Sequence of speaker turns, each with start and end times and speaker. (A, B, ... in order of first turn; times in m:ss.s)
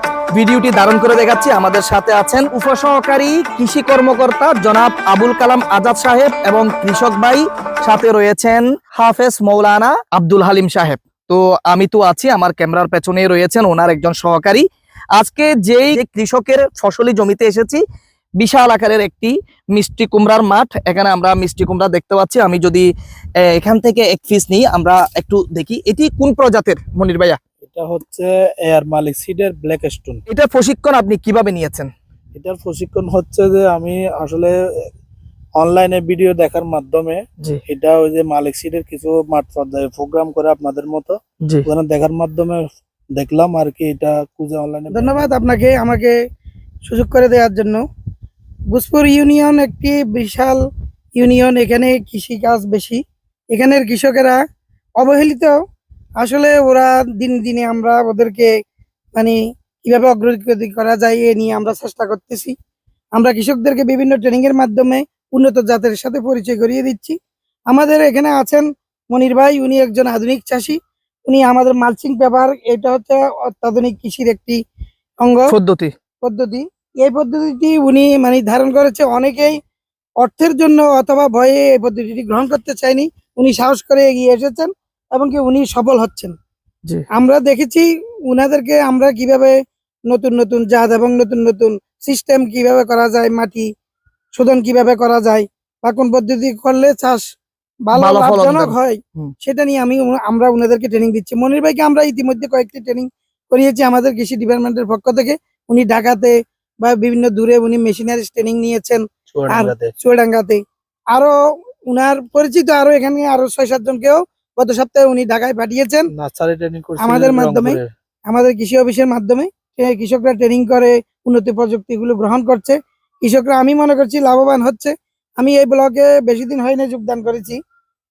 0:00.3-0:17.8 A
0:18.4-0:22.9 A
0:23.5-0:27.4 A
0:27.6-0:30.2 B
0:30.3-0:31.9 A
0:32.4-0:34.9 B
0:35.6-0:42.6 B
0:43.1-0:45.2 B
0:44.9-0:46.2 C
0:46.8-0:47.8 C
0:48.7-0:50.6 C
0:51.1-0:53.0 C
0:53.5-0:54.4 C
0:55.0-0:55.6 C
0:56.2-0:58.5 C
0:59.1-1:02.5 C
1:03.1-1:07.2 C
1:07.7-1:14.6 C
1:15.2-1:15.5 C
1:15.5-1:15.9 A
1:16.2-1:19.6 C
1:20.2-1:26.3 C
1:27.1-1:29.5 C
1:30.1-1:33.7 C
1:34.3-1:37.2 C
1:37.9-1:51.3 C
1:37.9-1:39.3 A
1:49.3-1:49.9 B
1:51.9-1:56.1 C
1:56.1-1:57.9 B
1:57.0-2:07.6 C